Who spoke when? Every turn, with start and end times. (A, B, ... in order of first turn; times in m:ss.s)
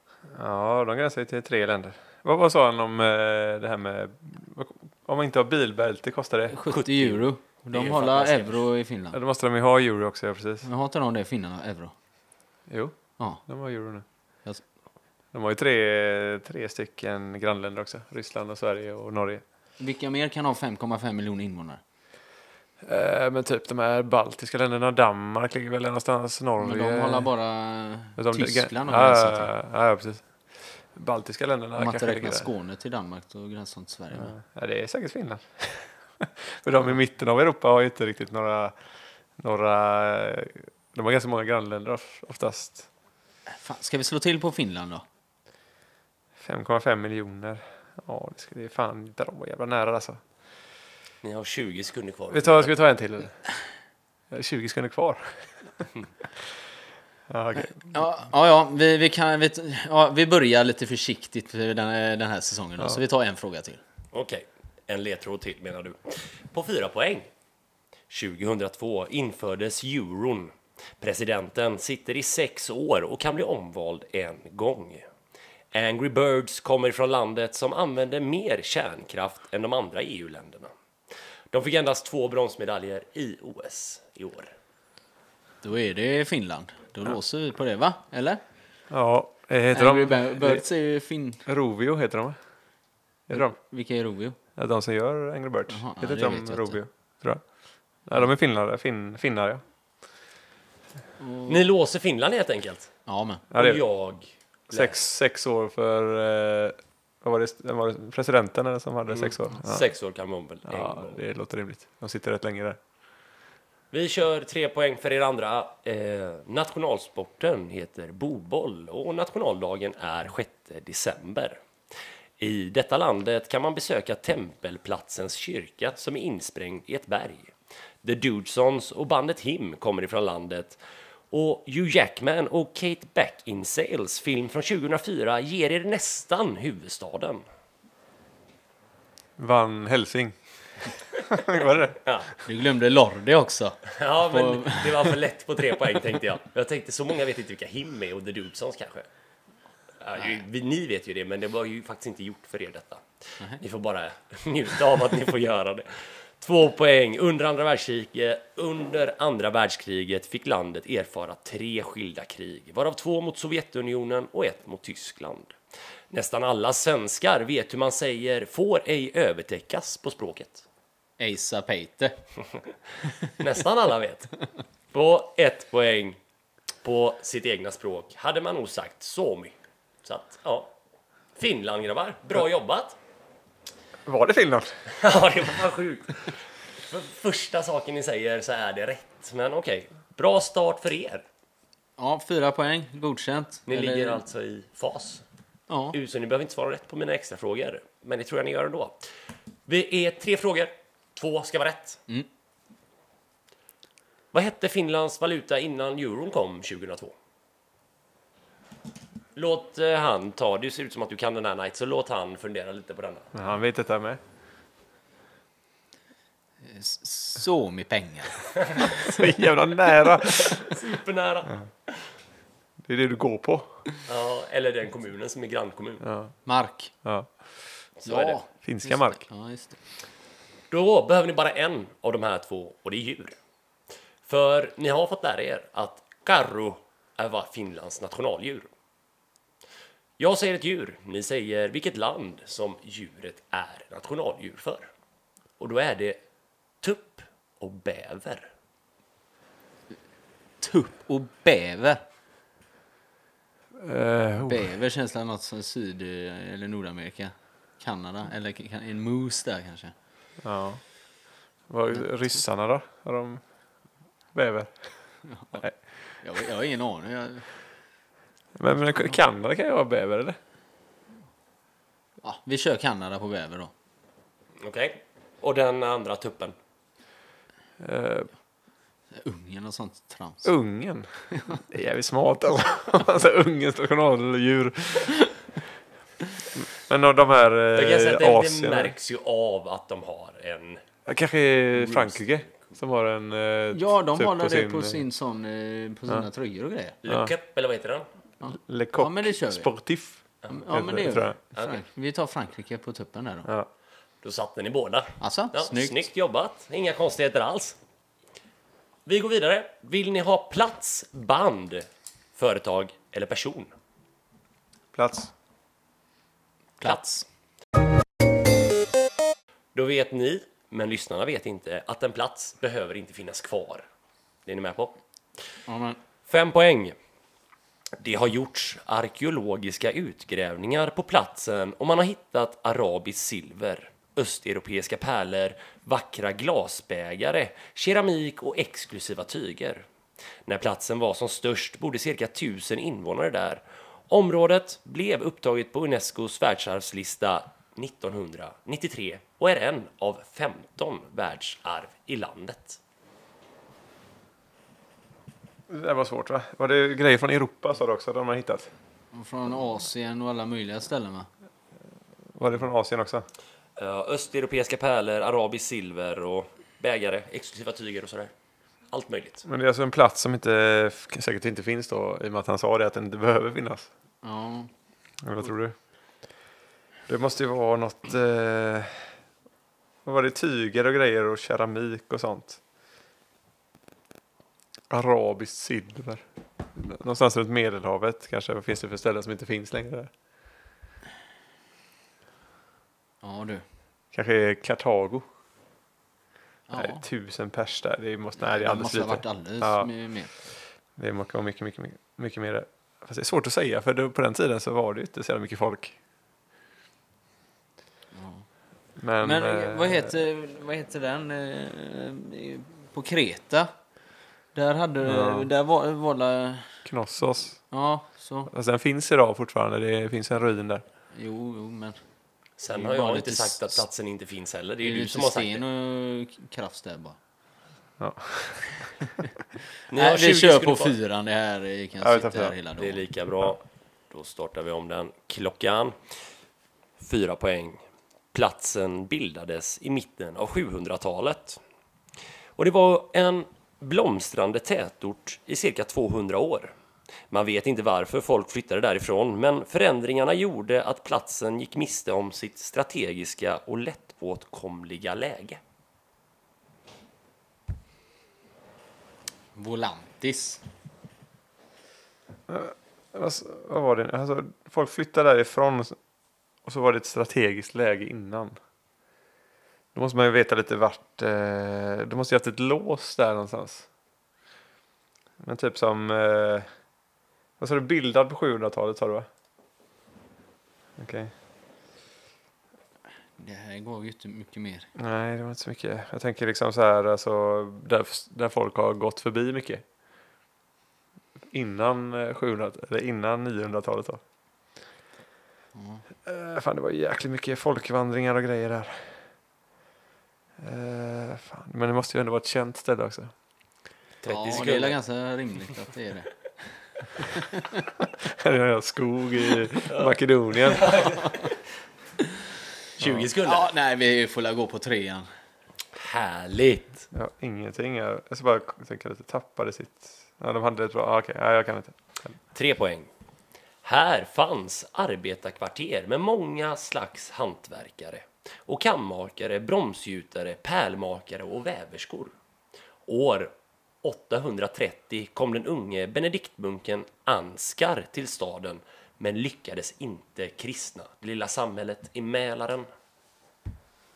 0:00.3-0:06.6 A
0:06.5-0:09.2 B
0:06.7-0:08.6 C
0:09.1-0:10.7 A
0:10.6-0:11.9 B
0:12.7-0:14.0 A
0:15.3-0:19.4 A
0:19.8-0:21.8 B
0:22.8-0:27.3 A
0:26.6-0:29.5 B
0:28.2-0:32.5 A
0:31.8-0:34.4 B
0:34.1-0:38.7 A
0:39.4-0:42.9 A
0:43.5-0:45.0 B
0:46.4-0:50.2 A
0:51.2-0:52.7 C
0:52.3-0:53.4 A
0:54.3-0:55.8 A
0:57.3-0:58.0 A
0:57.6-1:03.8 B
1:04.1-1:07.3 C
1:08.1-1:15.0 C
1:15.7-1:20.7 C
1:21.5-1:24.5 C
1:25.6-1:28.4 B
1:28.9-1:30.6 A
1:29.7-1:31.4 B
1:31.5-1:32.4 A
1:33.3-1:33.6 A
1:33.3-1:34.4 B
1:34.6-1:37.4 A
1:35.7-1:36.8 B
1:38.0-1:39.6 A
1:41.2-1:41.6 B
1:41.5-1:42.9 C
1:43.1-1:43.4 B
1:43.5-1:43.8 A
1:43.5-1:45.0 C
1:44.7-1:49.9 A
1:49.1-1:51.2 C
1:50.7-1:52.8 A
1:53.9-2:01.6 C
2:02.4-2:07.5 C
2:08.0-2:10.8 C
2:11.3-2:17.4 C
2:19.4-2:20.4 A
2:21.3-2:22.0 A
2:22.0-2:22.3 C
2:22.4-2:25.2 B
2:23.9-2:29.1 C
2:30.0-2:33.0 C
2:33.6-2:45.6 C
2:46.1-2:50.6 C
2:51.2-2:52.2 B
2:53.3-2:54.4 C
2:54.9-2:56.2 C
2:56.8-3:00.7 C
3:01.4-3:03.0 C
3:04.0-3:04.8 A
3:04.9-3:11.2 C
3:12.0-3:14.2 B
3:13.7-3:15.2 C
3:15.7-3:16.0 B
3:15.9-3:19.0 C
3:19.7-3:22.0 C
3:24.3-3:27.1 C
3:29.3-3:33.3 C
3:33.3-3:34.2 A
3:36.6-3:38.5 B
3:38.6-3:39.0 C
3:38.9-3:40.8 A
3:40.2-3:41.6 C
3:42.8-3:43.8 A
3:44.0-3:46.0 C
3:46.0-3:46.3 A
3:46.4-3:46.9 B
3:47.0-3:47.3 A
3:48.0-3:48.4 C
3:48.0-3:49.8 B
3:48.6-3:49.2 A
3:50.7-3:53.4 C
3:54.2-3:58.7 C
4:00.2-4:04.9 C
4:05.6-4:06.2 C
4:06.8-4:08.5 C
4:10.6-4:12.0 B
4:13.8-4:14.7 A
4:14.4-4:19.9 B
4:20.4-4:20.8 A
4:21.7-4:23.4 A
4:24.3-4:24.9 A
4:25.3-4:25.6 B
4:26.2-4:27.5 B
4:28.6-4:30.4 A
4:32.2-4:33.7 B
4:34.6-4:36.5 C
4:37.8-4:38.3 A
4:39.1-4:40.5 B
4:40.4-4:45.3 A
4:46.5-4:48.9 A
4:47.7-4:50.8 C
4:51.0-4:55.0 A
4:51.7-4:52.7 C
4:53.7-4:57.0 B
4:57.0-4:58.1 C
4:57.1-4:57.3 A
4:58.4-4:59.7 B
4:58.5-5:01.4 A
5:00.5-5:03.5 B
5:04.2-5:07.8 C
5:05.2-5:06.0 B
5:09.0-5:13.7 C
5:14.9-5:15.3 A
5:16.8-5:17.2 B
5:19.7-5:23.8 C
5:24.4-5:25.0 C
5:25.6-5:26.0 B
5:26.3-5:26.9 C
5:28.0-5:39.8 C
5:40.4-5:52.8 C
5:55.7-5:58.7 A
5:59.1-6:01.3 B
6:02.3-6:03.2 A
6:03.8-6:08.3 C
6:08.9-6:09.4 C
6:09.4-6:13.9 A
6:14.2-6:14.7 B
6:15.2-6:15.7 A
6:17.1-6:19.0 A
6:20.0-6:22.6 A
6:24.9-6:26.2 A
6:26.7-6:30.1 A
6:33.2-6:33.6 B
6:34.1-6:35.2 A
6:36.7-6:37.0 B
6:36.7-6:39.9 A
6:38.4-6:40.3 B
6:41.0-6:46.0 A
6:48.1-6:48.4 B
6:49.0-6:50.1 A
6:49.2-6:53.7 B
6:54.5-6:56.8 B
6:55.0-6:55.5 A
6:56.8-6:57.6 A
6:57.7-6:58.5 B
6:58.5-7:00.8 A
7:01.1-7:02.0 B
7:02.6-7:05.6 C
7:02.7-7:03.8 B
7:04.8-7:07.2 B
7:08.0-7:08.9 A
7:09.9-7:11.0 C
7:09.9-7:13.0 B
7:12.0-7:12.5 A
7:12.8-7:16.0 C
7:17.0-7:17.8 C
7:18.3-7:21.6 C
7:22.6-7:26.7 C
7:27.3-7:35.6 C
7:39.5-7:40.6 B
7:42.5-7:46.0 A
7:46.6-7:48.6 A
7:49.9-7:53.9 A
7:55.4-7:56.7 A
7:57.6-7:59.3 A
8:01.0-8:01.3 A
8:03.4-8:04.9 B
8:05.0-8:09.8 A
8:11.5-8:14.2 A
8:15.7-8:16.0 B
8:16.2-8:19.2 A
8:20.6-8:23.3 A
8:24.2-8:25.0 C
8:24.3-8:26.3 B
8:27.2-8:27.9 B
8:28.1-8:31.2 A
8:29.9-8:31.5 C
8:33.0-8:33.7 C
8:33.0-8:33.3 A
8:33.4-8:35.3 B
8:35.9-8:37.0 C
8:37.1-8:42.3 A
8:42.5-8:43.1 C
8:43.8-8:52.3 C
8:53.1-9:02.8 C